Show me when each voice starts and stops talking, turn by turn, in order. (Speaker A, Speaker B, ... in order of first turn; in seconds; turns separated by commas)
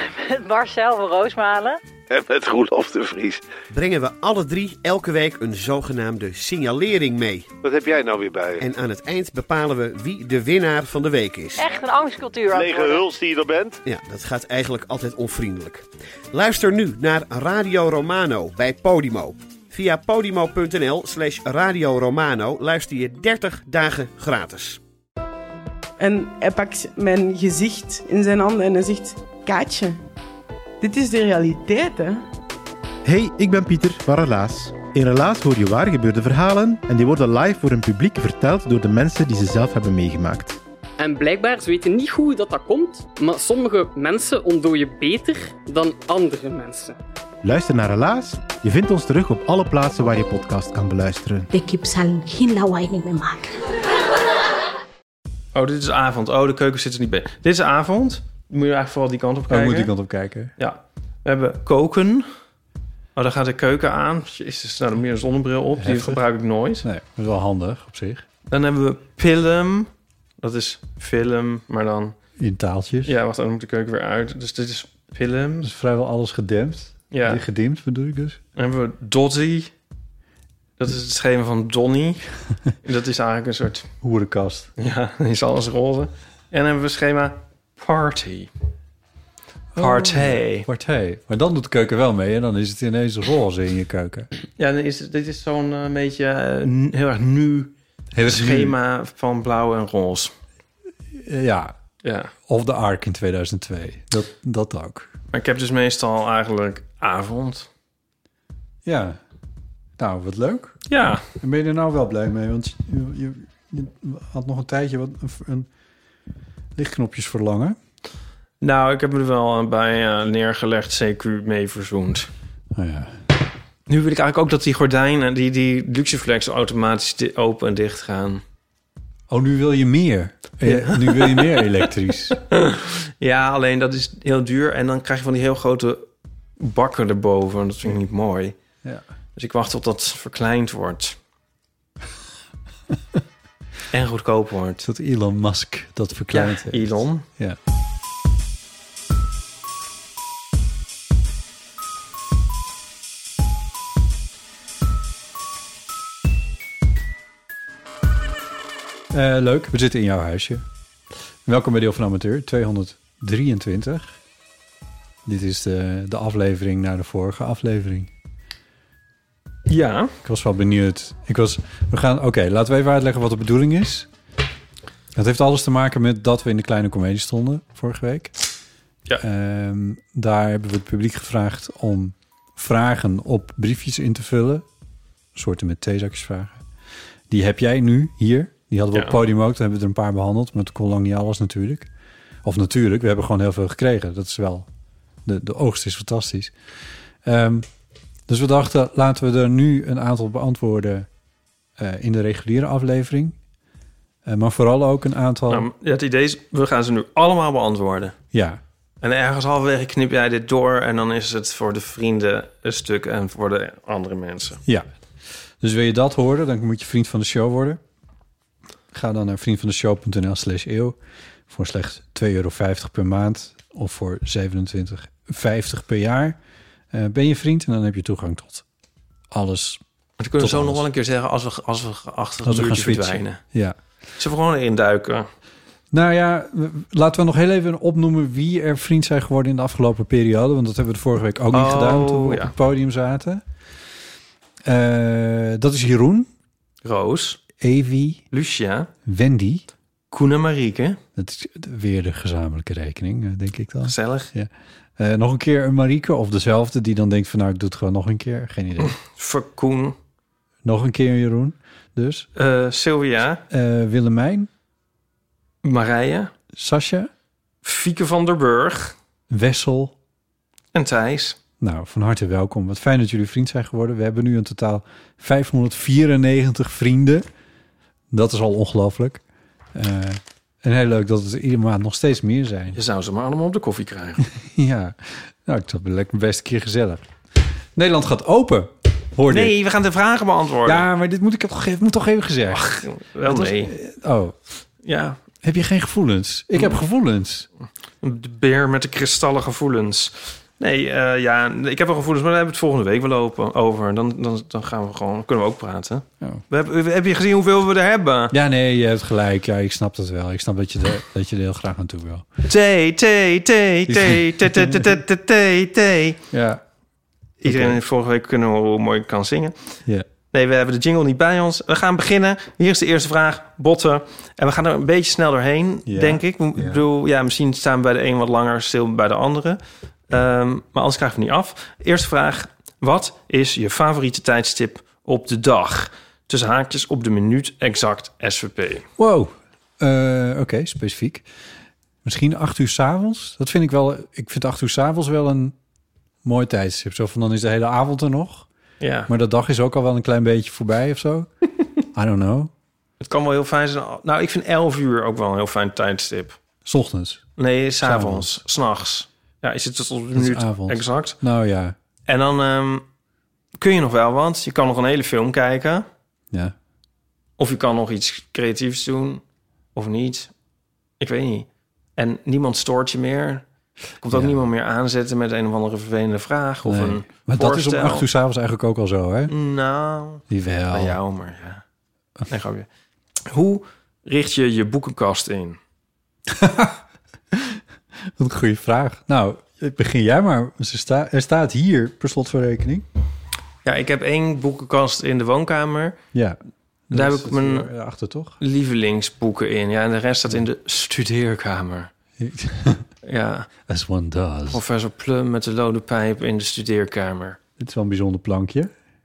Speaker A: 0.3-1.8, Speaker B: 2.1-3.4, Speaker C: 3.7-7.5, Speaker B: 7.6-8.7, Speaker C: 8.6-11.7, Speaker A: 11.6-13.0, Speaker B: 12.5-13.8, Speaker C: 13.8-24.8, Speaker D: 26.0-30.0, Speaker D: 30.8-32.2, Speaker E: 33.0-40.6, Speaker F: 41.0-47.0, Speaker E: 47.4-51.5, Speaker G: 51.5-53.6, Speaker H: 55.5-59.9, Speaker I: 59.5-60.5, Speaker H: 60.6-62.3, Speaker H: 63.2-66.9, Speaker I: 65.8-66.2, Speaker I: 66.8-68.3, Speaker H: 68.5-72.2, Speaker I: 72.4-73.1, Speaker H: 73.0-75.7, Speaker I: 75.6-78.4, Speaker H: 77.1-77.4, Speaker H: 78.6-79.7, Speaker H: 80.8-82.2, Speaker H: 82.8-83.9, Speaker I: 84.0-84.7, Speaker H: 84.8-88.5, Speaker I: 89.8-94.3, Speaker H: 89.8-90.7, Speaker H: 94.6-100.3, Speaker I: 98.1-98.8, Speaker I: 101.2-101.7, Speaker H: 102.0-102.3, Speaker I: 102.5-105.1, Speaker H: 105.3-107.7, Speaker I: 108.8-109.2, Speaker I: 110.0-110.8, Speaker H: 110.9-111.3, Speaker I: 111.3-115.7, Speaker I: 116.8-117.8, Speaker H: 118.6-122.3, Speaker I: 122.7-123.2, Speaker H: 123.9-128.4, Speaker I: 129.3-132.4, Speaker H: 130.7-136.1, Speaker H: 136.6-138.6, Speaker H: 139.4-141.2, Speaker H: 143.9-144.8, Speaker I: 144.8-147.6, Speaker H: 146.3-147.3, Speaker I: 159.1-160.7, Speaker I: 161.4-164.1, Speaker I: 165.3-168.1, Speaker H: 169.7-170.1, Speaker I: 170.2-174.1, Speaker I: 175.1-178.3, Speaker I: 179.2-184.7, Speaker I: 185.3-186.6, Speaker I: 187.3-191.9, Speaker H: 188.9-189.2, Speaker I: 192.4-194.7, Speaker I: 195.3-196.5, Speaker I: 197.2-197.7, Speaker I: 198.3-201.1, Speaker I: 201.8-203.4, Speaker I: 204.3-205.7, Speaker H: 205.5-208.2, Speaker I: 208.3-208.6, Speaker H: 209.0-214.6, Speaker I: 215.6-217.8, Speaker I: 218.9-221.0, Speaker I: 221.5-226.4, Speaker I: 226.9-228.7, Speaker I: 229.3-229.8, Speaker H: 230.2-233.4, Speaker I: 230.4-230.8, Speaker I: 232.4-233.8, Speaker H: 234.2-235.3, Speaker I: 235.9-243.4, Speaker H: 241.5-242.5, Speaker I: 244.7-246.3, Speaker H: 246.8-247.4, Speaker I: 247.6-248.2, Speaker H: 248.3-248.9, Speaker I: 249.1-249.7, Speaker H: 250.1-251.0, Speaker I: 251.2-259.0, Speaker H: 253.8-254.3, Speaker H: 258.9-259.9, Speaker I: 260.6-262.3, Speaker H: 262.4-263.4, Speaker I: 263.5-264.5, Speaker H: 265.6-266.3, Speaker I: 266.5-267.1, Speaker H: 267.6-269.0, Speaker I: 269.3-269.9, Speaker H: 270.7-271.4, Speaker I: 271.6-277.3, Speaker I: 278.1-279.2, Speaker I: 279.7-282.8, Speaker H: 282.7-284.2, Speaker I: 284.2-289.5, Speaker H: 289.3-290.9, Speaker I: 290.6-294.4, Speaker H: 292.5-293.7, Speaker H: 294.8-295.2, Speaker I: 295.4-297.5, Speaker H: 298.0-308.3, Speaker I: 308.3-312.3, Speaker H: 312.4-316.2, Speaker I: 313.9-315.0, Speaker I: 316.3-316.6, Speaker H: 317.4-319.8, Speaker I: 317.4-317.8, Speaker H: 320.3-338.9, Speaker I: 325.9-326.8, Speaker I: 339.0-341.3, Speaker I: 342.0-345.6, Speaker I: 346.2-348.5, Speaker H: 348.8-349.1, Speaker I: 349.1-351.3, Speaker I: 351.9-352.5, Speaker H: 353.0-356.4, Speaker I: 356.6-357.3, Speaker H: 357.4-361.2, Speaker I: 357.8-358.3, Speaker I: 360.1-361.8, Speaker H: 362.1-362.9, Speaker H: 363.6-365.9, Speaker H: 367.4-369.2, Speaker H: 369.8-370.3, Speaker H: 371.0-373.4, Speaker H: 374.0-378.1, Speaker I: 374.1-374.4, Speaker I: 376.6-379.3, Speaker H: 379.3-381.6, Speaker I: 380.3-381.0, Speaker H: 382.3-382.7, Speaker H: 383.3-385.6, Speaker I: 386.3-392.9, Speaker H: 393.6-396.0, Speaker I: 396.1-396.4, Speaker I: 396.9-398.4, Speaker H: 396.9-397.7, Speaker H: 398.4-401.9, Speaker I: 402.2-402.9, Speaker H: 403.0-403.5, Speaker I: 403.7-404.6, Speaker H: 404.5-407.4, Speaker I: 407.6-408.7